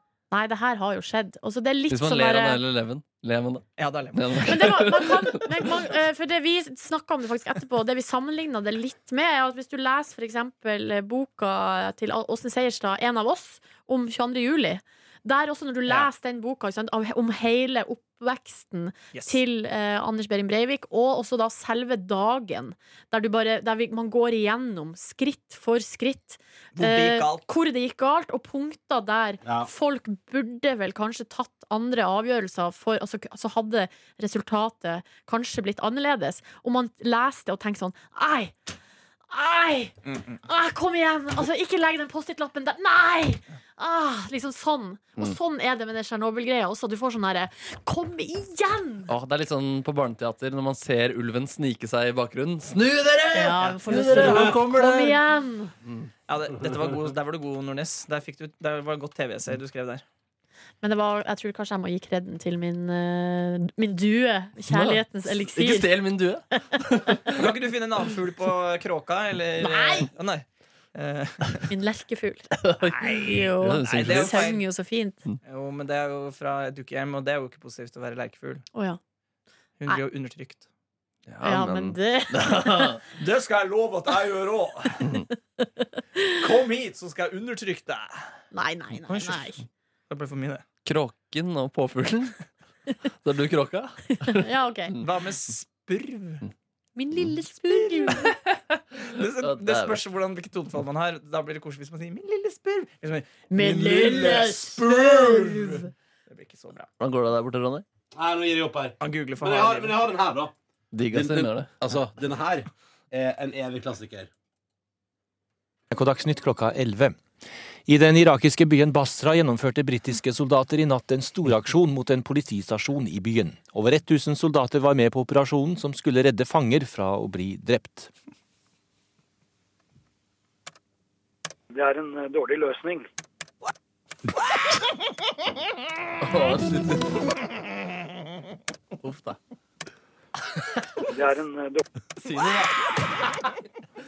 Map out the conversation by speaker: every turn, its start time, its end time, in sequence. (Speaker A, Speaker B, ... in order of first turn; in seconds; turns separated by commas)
Speaker A: 0.3-2.6, Speaker B: 1.9-5.4, Speaker C: 3.8-4.4, Speaker A: 4.4-38.5, Speaker C: 26.8-27.4, Speaker A: 39.3-49.1, Speaker C: 40.1-40.4, Speaker B: 49.1-55.2, Speaker A: 53.3-55.7, Speaker D: 54.2-54.5, Speaker C: 56.3-60.0, Speaker A: 60.8-66.0, Speaker B: 64.7-67.4, Speaker C: 67.3-71.7, Speaker A: 69.6-70.1, Speaker A: 71.7-72.5, Speaker B: 72.6-74.5, Speaker A: 73.1-75.2, Speaker C: 73.8-74.6, Speaker C: 75.5-78.6, Speaker A: 78.7-79.0, Speaker C: 79.8-80.6, Speaker B: 81.3-83.0, Speaker A: 81.4-83.0, Speaker C: 83.2-85.1, Speaker C: 86.3-88.3, Speaker A: 88.5-89.6, Speaker C: 89.1-90.6, Speaker B: 90.8-92.4, Speaker B: 93.2-95.0, Speaker A: 94.2-94.9, Speaker C: 95.0-96.4, Speaker A: 97.0-98.3, Speaker C: 99.1-105.8, Speaker B: 99.4-100.0, Speaker A: 103.5-105.9, Speaker D: 103.8-105.3, Speaker C: 106.3-106.9, Speaker B: 107.0-107.8, Speaker D: 108.1-110.5, Speaker C: 109.0-110.0, Speaker B: 110.9-111.7, Speaker D: 111.1-114.3, Speaker E: 115.9-117.2, Speaker E: 117.9-128.1, Speaker F: 131.7-133.0, Speaker B: 136.2-137.2, Speaker B: 139.0-139.4, Speaker F: 141.2-141.8, Speaker B: 142.2-142.7